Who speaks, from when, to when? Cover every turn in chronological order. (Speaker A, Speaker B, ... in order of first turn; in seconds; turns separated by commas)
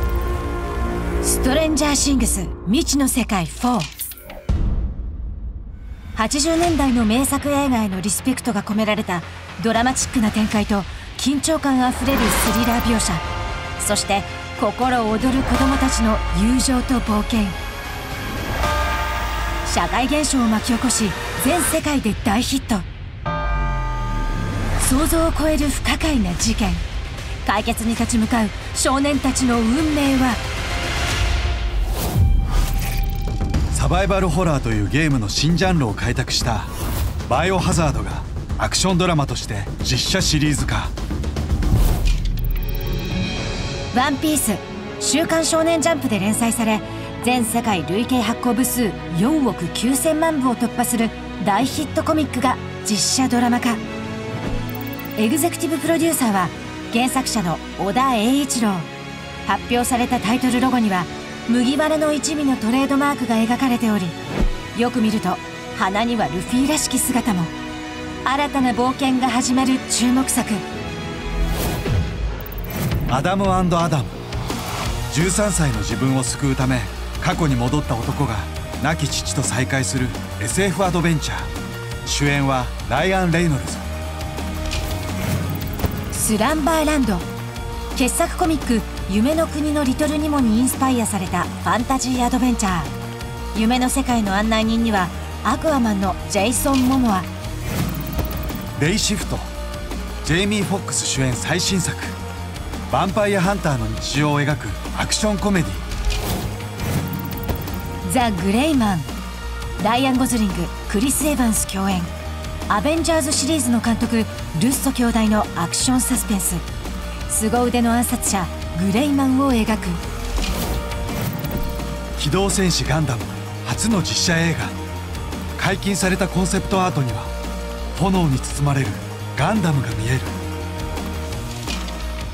Speaker A: 1.2-3.9, Speaker A: 6.1-13.2, Speaker A: 13.8-17.6, Speaker A: 19.6-22.8, Speaker A: 24.8-26.8, Speaker A: 27.4-30.4, Speaker B: 33.7-36.7, Speaker B: 37.3-40.9, Speaker A: 43.9-53.8, Speaker A: 55.2-58.9, Speaker A: 59.4-64.2, Speaker A: 64.7-67.5, Speaker A: 68.2-70.6, Speaker B: 73.1-74.2, Speaker B: 75.1-81.5, Speaker B: 82.0-83.9, Speaker A: 86.1-87.3, Speaker A: 87.9-92.9, Speaker A: 93.5-97.3, Speaker B: 98.8-99.5, Speaker B: 100.2-102.2, Speaker B: 102.9-105.8, Speaker A: 108.0-109.1, Speaker A: 109.8-112.1, Speaker A: 112.7-116.6, Speaker A: 117.3-120.0, Speaker B: 122.2-124.8, Speaker B: 125.5-127.3, Speaker B: 127.9-130.4